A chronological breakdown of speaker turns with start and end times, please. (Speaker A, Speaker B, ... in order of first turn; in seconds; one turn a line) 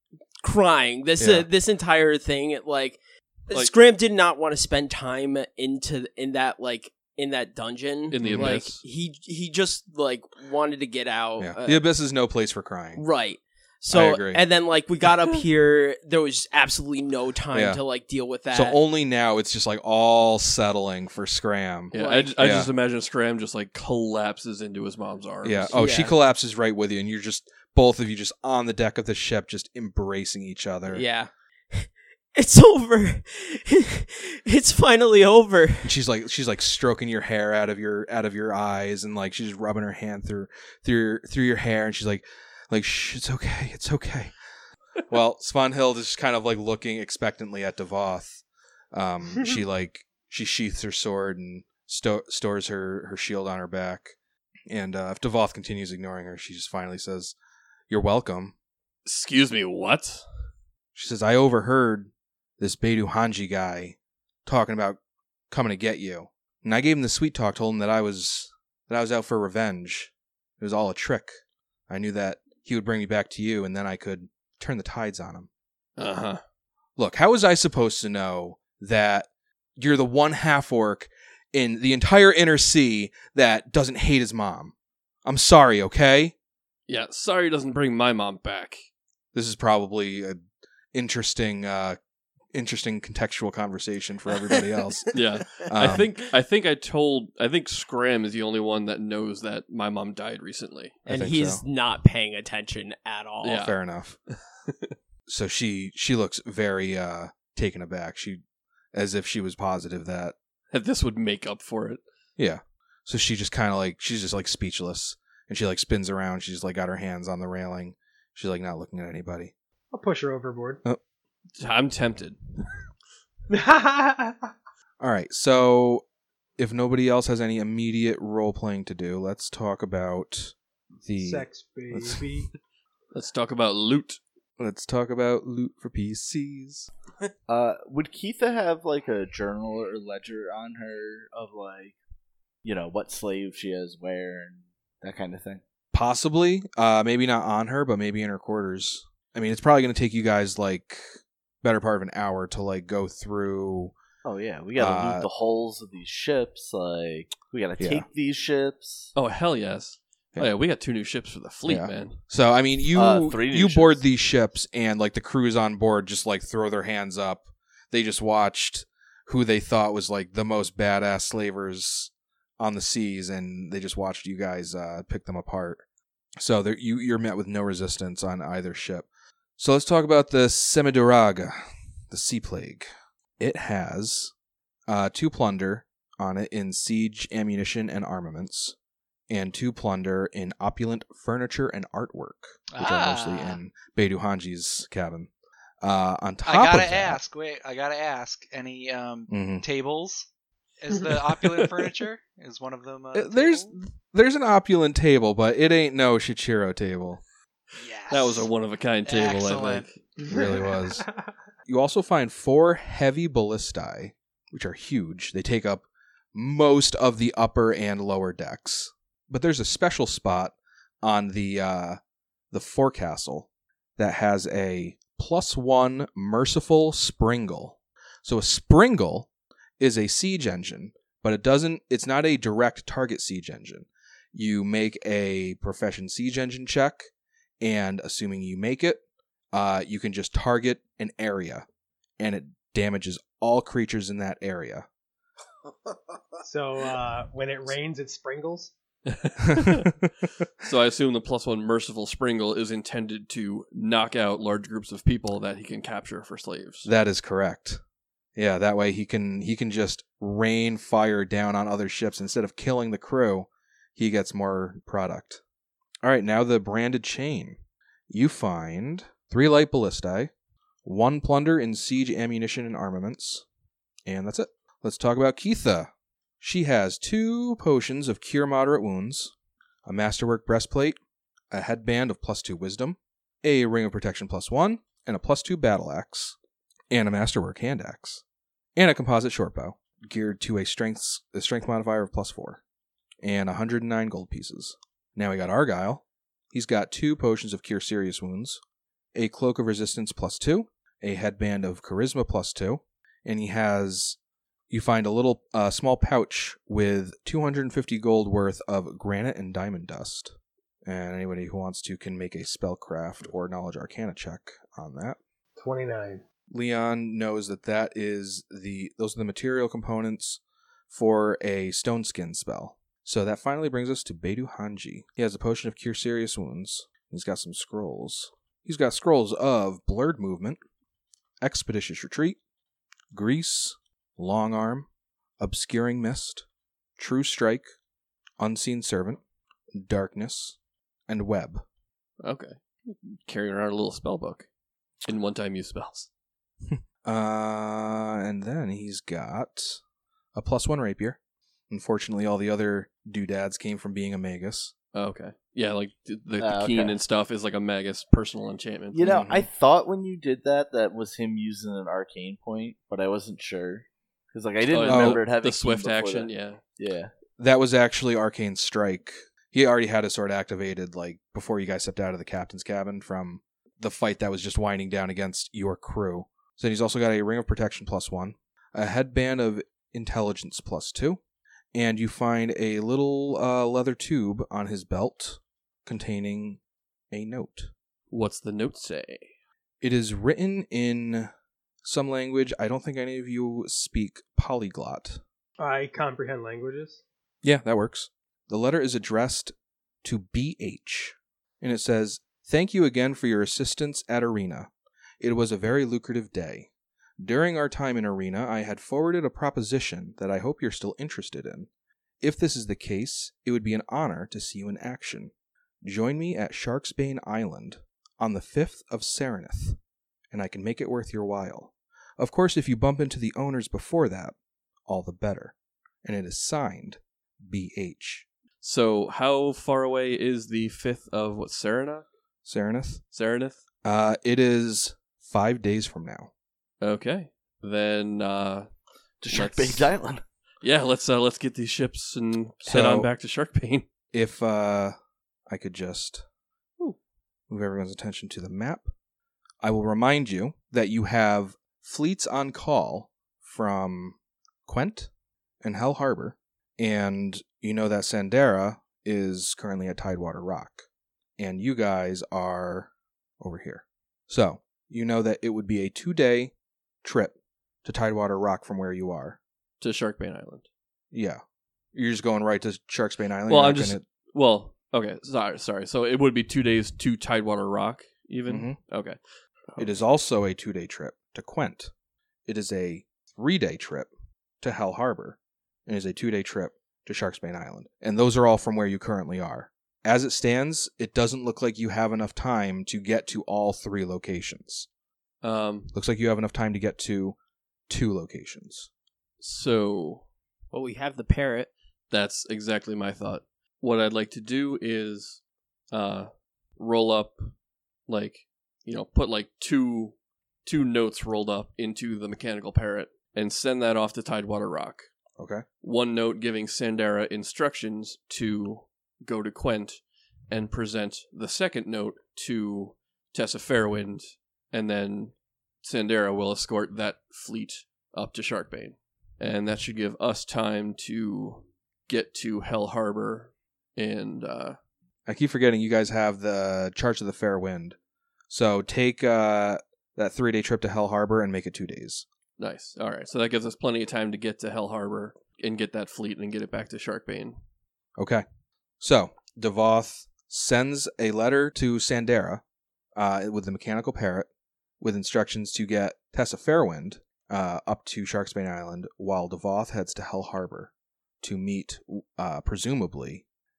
Speaker A: 0.4-11.8
Speaker B: 1.2-1.5
Speaker C: 8.1-8.7
Speaker B: 8.2-8.8
Speaker B: 11.4-13.0
Speaker A: 12.9-18.8
Speaker B: 13.9-14.4
Speaker B: 17.5-17.8
Speaker B: 18.5-22.7
Speaker C: 21.9-25.8
Speaker A: 21.9-22.4
Speaker B: 25.4-31.0
Speaker A: 25.7-26.1
Speaker A: 30.9-35.9
Speaker B: 35.8-44.3
Speaker B: 45.1-54.1
Speaker B: 54.7-57.3
Speaker B: 57.9-58.5
Speaker C: 59.0-60.2
Speaker B: 60.9-65.0
Speaker B: 65.5-71.3
Speaker B: 71.9-75.5
Speaker C: 76.0-76.4
Speaker B: 77.0-84.7
Speaker B: 85.2-86.3
Speaker C: 86.9-88.9
Speaker B: 89.3-90.4
Speaker B: 90.9-92.0
Speaker B: 92.5-96.1
Speaker A: 94.5-95.2
Speaker C: 95.1-101.1
Speaker B: 101.1-101.6
Speaker A: 101.1-103.7
Speaker C: 103.4-103.8
Speaker B: 103.6-104.2
Speaker C: 104.7-104.9
Speaker B: 105.3-108.4
Speaker B: 108.9-110.3
Speaker C: 110.7-112.0
Speaker B: 112.4-119.5
Speaker D: 119.9-120.8
Speaker C: 121.6-122.4
Speaker D: 123.5-124.5
Speaker B: 125.0-126.0
Speaker B: 126.6-132.4
Speaker D: 131.2-132.5
Speaker C: 133.1-134.2
Speaker B: 134.6-136.9
Speaker E: 137.5-141.9
Speaker E: 142.6-145.6
Speaker B: 145.9-153.9
Speaker E: 154.2-159.1
Speaker B: 154.8-155.3
Speaker B: 157.8-158.0
Speaker C: 159.2-162.2
Speaker B: 161.7-175.8
Speaker E: 162.9-164.0
Speaker B: 176.4-181.6
Speaker B: 182.1-182.9
Speaker B: 183.4-184.3
Speaker B: 184.9-188.7
Speaker B: 189.3-195.3
Speaker F: 192.7-193.6
Speaker B: 195.8-197.2
Speaker F: 196.4-200.3
Speaker B: 199.3-199.6
Speaker F: 200.8-203.7
Speaker B: 203.1-207.2
Speaker F: 207.7-208.5
Speaker C: 208.1-210.0
Speaker F: 209.1-209.8
Speaker D: 210.2-211.3
Speaker B: 210.3-211.1
Speaker B: 211.7-222.0
Speaker B: 222.5-229.3
Speaker B: 229.8-237.1
Speaker B: 237.6-241.7
Speaker B: 242.2-244.9
Speaker D: 246.4-248.7
Speaker C: 249.1-249.9
Speaker B: 249.4-250.1
Speaker C: 250.6-256.9
Speaker B: 256.8-257.8
Speaker B: 258.4-265.4
Speaker B: 266.0-267.6
Speaker B: 268.1-270.3
Speaker B: 270.8-273.4
Speaker B: 274.1-279.3
Speaker B: 279.8-281.0
Speaker B: 281.5-286.4
Speaker B: 286.9-288.2
Speaker B: 288.8-292.6
Speaker B: 293.2-298.6
Speaker B: 299.1-304.2
Speaker B: 304.7-310.3
Speaker B: 310.8-315.2
Speaker D: 315.6-316.2
Speaker B: 316.5-330.6
Speaker B: 331.4-332.4
Speaker B: 333.1-334.9
Speaker B: 335.4-336.4
Speaker B: 337.0-337.7
Speaker B: 338.4-339.2
Speaker B: 339.7-340.6
Speaker B: 341.1-341.6
Speaker C: 342.2-344.5
Speaker C: 345.0-346.1
Speaker B: 346.7-349.8
Speaker B: 350.3-351.2
Speaker B: 351.7-354.7
Speaker C: 354.9-359.1
Speaker E: 356.4-357.0
Speaker E: 358.9-367.1
Speaker B: 359.0-359.5
Speaker C: 364.7-366.6
Speaker B: 364.9-365.2
Speaker B: 367.4-381.2
Speaker B: 381.7-387.7
Speaker C: 388.1-389.3
Speaker B: 389.8-391.3
Speaker B: 391.8-395.2
Speaker D: 395.6-397.0
Speaker B: 397.4-399.5
Speaker B: 400.0-406.7
Speaker B: 407.2-411.7
Speaker B: 412.2-419.8
Speaker B: 420.3-424.3
Speaker B: 424.9-428.3
Speaker C: 428.6-432.0
Speaker B: 432.4-433.0
Speaker C: 433.1-433.6
Speaker B: 433.8-436.3
Speaker C: 436.8-438.7
Speaker E: 439.2-440.2
Speaker C: 439.3-439.9
Speaker C: 440.6-443.9
Speaker B: 442.6-443.1
Speaker B: 444.1-444.9
Speaker B: 445.5-446.2
Speaker B: 447.5-448.9
Speaker B: 449.6-455.1
Speaker B: 455.6-460.9
Speaker B: 461.4-469.4
Speaker C: 469.8-470.6
Speaker B: 471.1-471.4
Speaker B: 471.9-474.0
Speaker C: 473.5-479.2
Speaker B: 478.4-478.8
Speaker B: 479.8-481.9
Speaker B: 482.4-484.1
Speaker B: 484.6-494.9
Speaker C: 495.4-495.9
Speaker B: 495.9-497.4
Speaker B: 497.9-498.9
Speaker C: 499.4-500.2
Speaker A: 500.7-501.7
Speaker C: 502.1-505.4
Speaker C: 505.9-507.5
Speaker C: 508.1-515.1
Speaker B: 515.4-515.6
Speaker C: 515.8-534.8
Speaker B: 535.3-538.0
Speaker B: 538.5-542.2
Speaker C: 542.6-547.5
Speaker B: 548.2-548.4
Speaker B: 549.0-552.6
Speaker B: 553.1-554.5
Speaker B: 555.0-563.4